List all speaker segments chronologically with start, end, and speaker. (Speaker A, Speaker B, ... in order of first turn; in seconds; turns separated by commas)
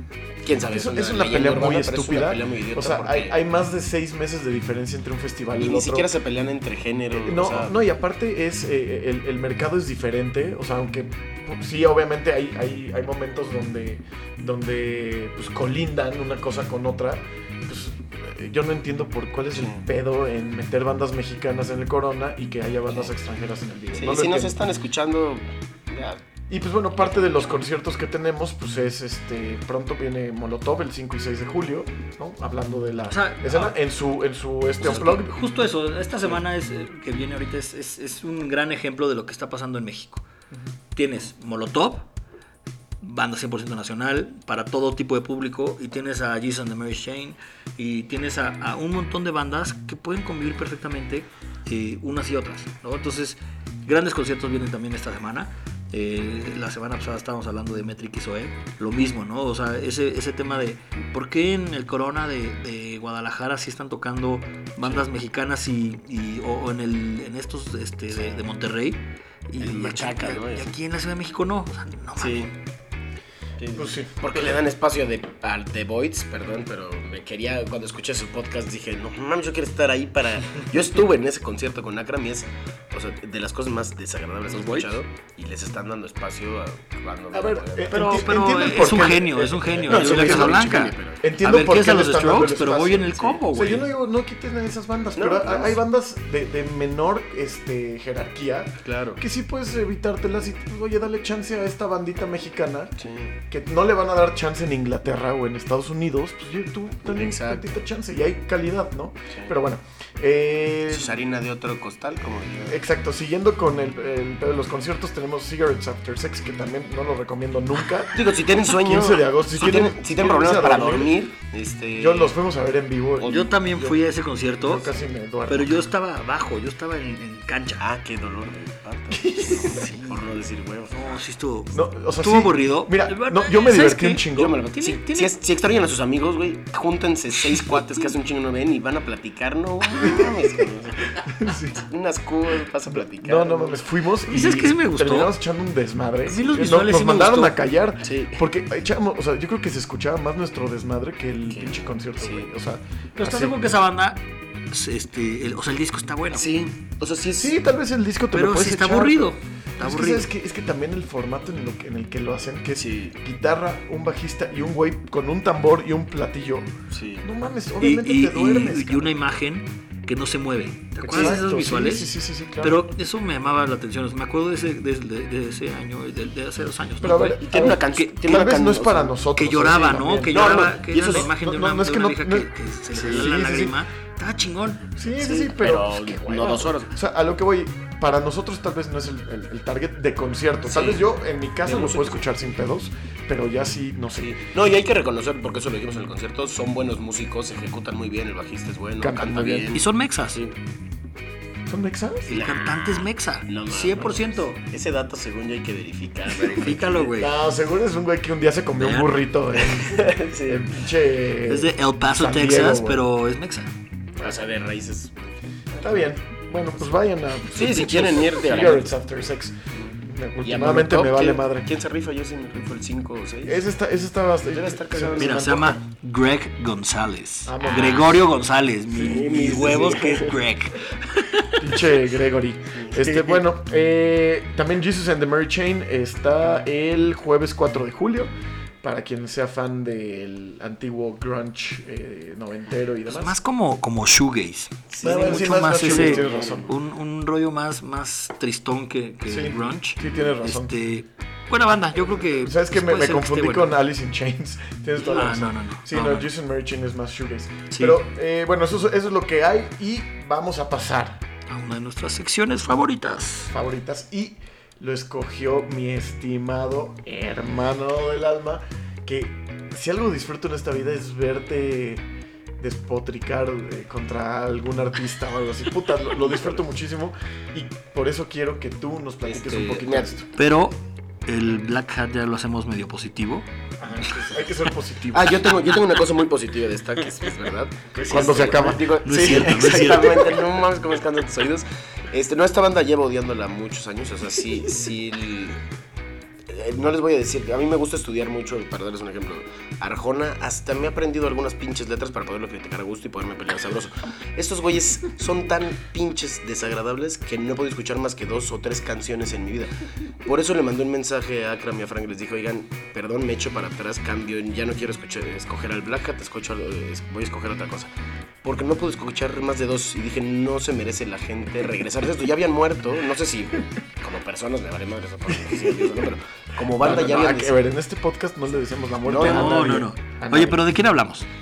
Speaker A: 0.4-3.4, Speaker B: 0.7-6.1, Speaker A: 5.6-7.7, Speaker B: 7.2-24.6, Speaker A: 19.6-19.8, Speaker A: 23.9-26.2, Speaker B: 26.5-35.4, Speaker A: 27.0-27.3, Speaker C: 33.1-33.8, Speaker C: 34.8-40.2, Speaker C: 40.9-42.1, Speaker C: 43.0-72.5, Speaker A: 69.6-70.7, Speaker A: 72.2-72.5, Speaker A: 73.6-88.2, Speaker B: 73.8-74.5, Speaker C: 84.5-84.9, Speaker B: 87.3-90.7, Speaker C: 87.9-93.9, Speaker A: 89.8-91.2, Speaker B: 91.2-102.9, Speaker A: 95.1-95.8, Speaker A: 98.8-99.2, Speaker A: 103.0-103.3, Speaker B: 103.5-111.2, Speaker A: 107.1-107.8, Speaker A: 110.9-112.8, Speaker B: 112.7-121.2, Speaker A: 118.1-122.3, Speaker B: 122.0-124.0, Speaker C: 123.2-125.0, Speaker B: 124.6-125.9, Speaker C: 125.5-127.8, Speaker A: 127.8-131.2, Speaker B: 129.1-129.8, Speaker C: 129.5-130.2, Speaker C: 130.9-135.3, Speaker B: 131.7-134.6, Speaker A: 134.3-143.8, Speaker B: 140.0-140.5, Speaker B: 141.2-141.8, Speaker B: 143.2-153.7, Speaker C: 144.2-145.3, Speaker C: 146.3-147.6, Speaker A: 148.0-148.4, Speaker A: 151.5-152.5, Speaker C: 153.2-156.5, Speaker A: 156.3-157.6, Speaker B: 157.4-166.7, Speaker C: 158.3-160.3, Speaker A: 162.8-163.2, Speaker A: 166.9-167.3, Speaker B: 167.2-169.1, Speaker C: 167.8-178.4, Speaker B: 171.0-172.8, Speaker B: 177.0-183.8, Speaker A: 177.4-179.2, Speaker C: 179.3-184.8, Speaker A: 180.3-181.3, Speaker B: 184.9-194.3, Speaker A: 185.2-187.0, Speaker A: 190.7-191.1, Speaker A: 191.6-192.2, Speaker A: 194.2-200.5, Speaker B: 199.0-199.8, Speaker C: 199.7-200.4, Speaker B: 201.7-202.3, Speaker C: 202.3-204.6, Speaker A: 202.3-207.1, Speaker C: 206.3-207.3, Speaker B: 207.2-213.0, Speaker C: 208.8-209.7, Speaker A: 209.8-210.7, Speaker C: 211.4-213.7, Speaker A: 214.2-216.1, Speaker B: 215.8-221.7, Speaker A: 217.4-218.9, Speaker A: 219.7-223.6, Speaker B: 223.4-225.5, Speaker A: 224.5-225.8, Speaker C: 225.2-231.8, Speaker B: 227.4-228.1, Speaker A: 227.6-228.2, Speaker B: 228.9-229.2, Speaker A: 229.0-230.4, Speaker B: 231.6-243.4, Speaker A: 232.7-233.4, Speaker C: 243.1-253.7, Speaker A: 244.9-246.7, Speaker B: 245.0-246.7, Speaker B: 249.3-250.7, Speaker B: 252.2-261.2, Speaker C: 255.0-256.3, Speaker C: 257.7-258.0, Speaker C: 261.5-263.5, Speaker B: 263.5-272.0, Speaker B: 272.6-280.3, Speaker A: 276.2-276.6, Speaker A: 279.3-280.1, Speaker C: 280.4-283.5, Speaker B: 283.8-285.4, Speaker A: 285.1-295.6, Speaker B: 288.1-289.1, Speaker C: 289.0-290.3, Speaker A: 296.5-309.7, Speaker A: 310.2-317.9, Speaker A: 318.4-327.6, Speaker B: 325.5-326.0, Speaker B: 326.8-330.6, Speaker A: 329.0-329.8, Speaker C: 329.1-331.3